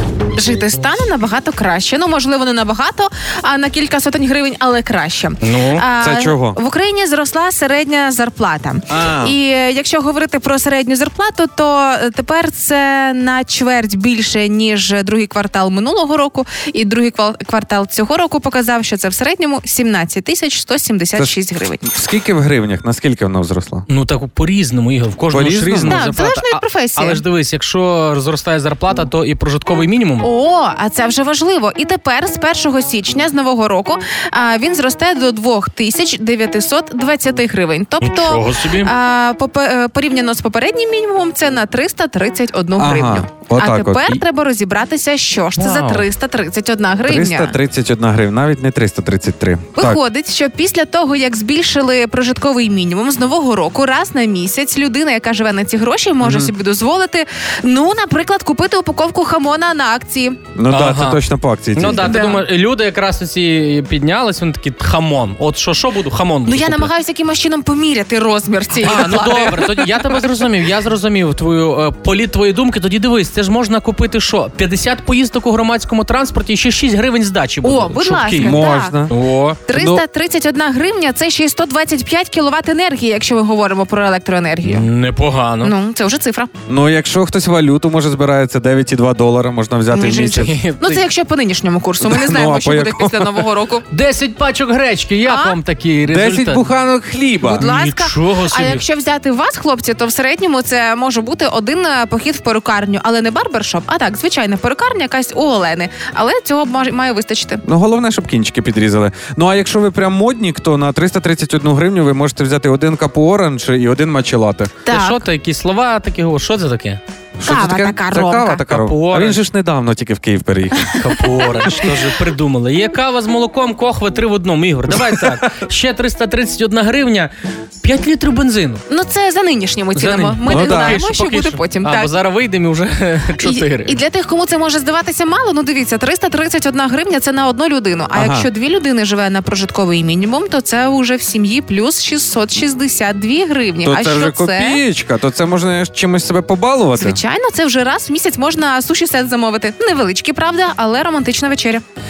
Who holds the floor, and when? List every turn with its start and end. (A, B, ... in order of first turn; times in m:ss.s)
0:00.3-0:21.8 A
0:05.4-0:05.9 B
0:06.0-0:06.6 C
0:08.9-0:09.4 C
0:21.2-0:23.8 C
0:23.9-0:30.3 B
0:25.3-0:26.0 C
0:25.9-0:27.2 A
0:30.2-0:47.6 A
0:38.0-0:38.9 B
0:42.8-0:44.1 C
0:45.6-0:46.1 B
0:47.0-0:50.0 C
0:49.8-1:00.4 A
0:56.2-0:56.5 C
1:00.5-1:02.0 C
1:00.7-1:01.2 B
1:01.7-1:06.9 B
1:01.9-1:02.4 A
1:06.4-1:09.9 A
1:08.8-1:19.6 B
1:08.8-1:09.7 C
1:17.6-1:19.0 A
1:18.4-1:19.1 C
1:19.7-1:24.9 A
1:19.7-1:20.0 C
1:24.6-1:25.7 B
1:25.6-1:26.5 A
1:26.7-1:30.5 C
1:29.9-1:33.8 A
1:30.1-1:31.0 B
1:32.0-1:33.5 C
1:33.9-1:36.6 B
1:35.2-1:35.6 A
1:36.1-1:37.6 C
1:37.4-1:47.6 A
1:37.6-1:38.8 B
1:47.6-1:54.8 C
1:54.8-1:55.2 A
1:54.9-1:57.0 B
1:57.4-2:01.0 C
1:57.4-1:58.6 A
1:58.6-1:59.4 B
2:01.0-2:08.8 B
2:01.5-2:01.9 A
2:01.6-2:01.9 C
2:04.9-2:05.4 C
2:08.9-2:12.1 A
2:10.0-2:14.0 B
2:10.4-2:11.0 C
2:13.4-2:24.8 A
2:18.1-2:18.5 C
2:23.8-2:27.2 C
2:27.0-2:31.8 A